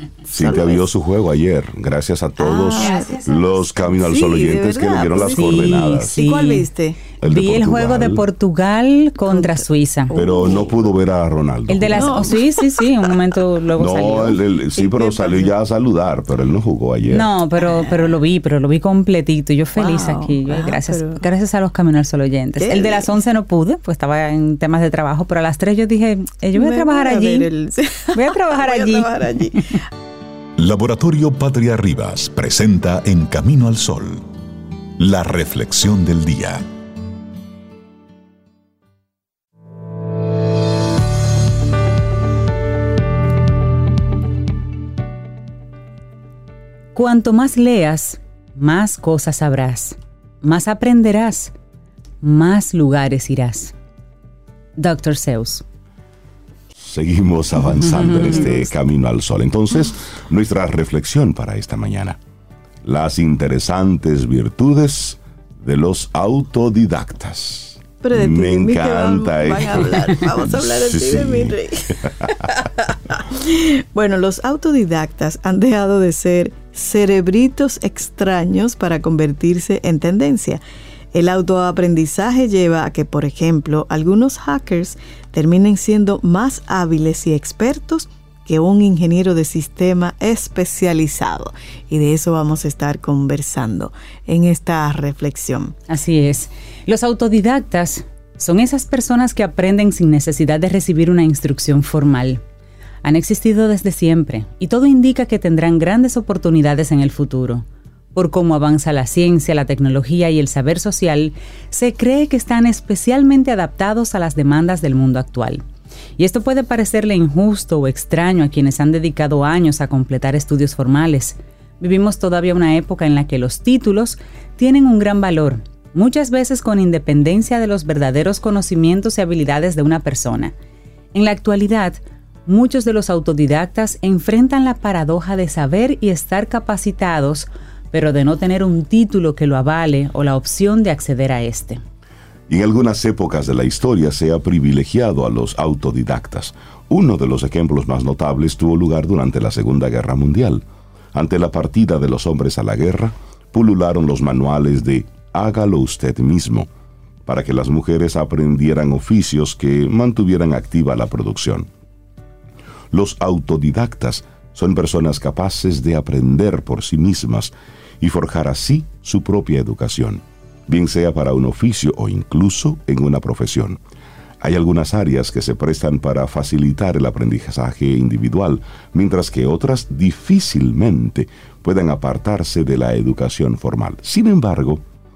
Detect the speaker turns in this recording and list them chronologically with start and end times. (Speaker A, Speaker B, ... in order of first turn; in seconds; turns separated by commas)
Speaker A: 0.2-0.8, Speaker B: 0.3-6.2, Speaker A: 2.4-3.2, Speaker C: 2.8-3.6, Speaker A: 3.8-7.0, Speaker C: 5.2-6.7, Speaker B: 7.2-8.2, Speaker C: 7.2-10.1, Speaker A: 9.3-10.8, Speaker B: 10.1-12.3, Speaker C: 11.7-14.4, Speaker A: 11.9-12.8, Speaker B: 13.8-17.3, Speaker A: 14.8-15.5, Speaker C: 17.1-27.5, Speaker A: 19.8-21.2, Speaker A: 22.6-23.1, Speaker A: 26.5-29.8, Speaker C: 28.1-29.3, Speaker D: 30.6-34.2, Speaker D: 35.0-36.6, Speaker C: 46.9-51.5, Speaker C: 52.2-53.7, Speaker C: 54.8-55.6, Speaker B: 56.8-62.2, Speaker C: 58.0-58.4, Speaker B: 62.8-72.5, Speaker A: 68.0-80.6, Speaker A: 81.1-95.8, Speaker C: 95.9-102.4, Speaker C: 103.0-115.6, Speaker C: 116.2-130.5, Speaker C: 131.1-141.8, Speaker B: 142.5-156.7, Speaker B: 157.2-161.7, Speaker B: 162.9-173.8, Speaker B: 174.4-184.8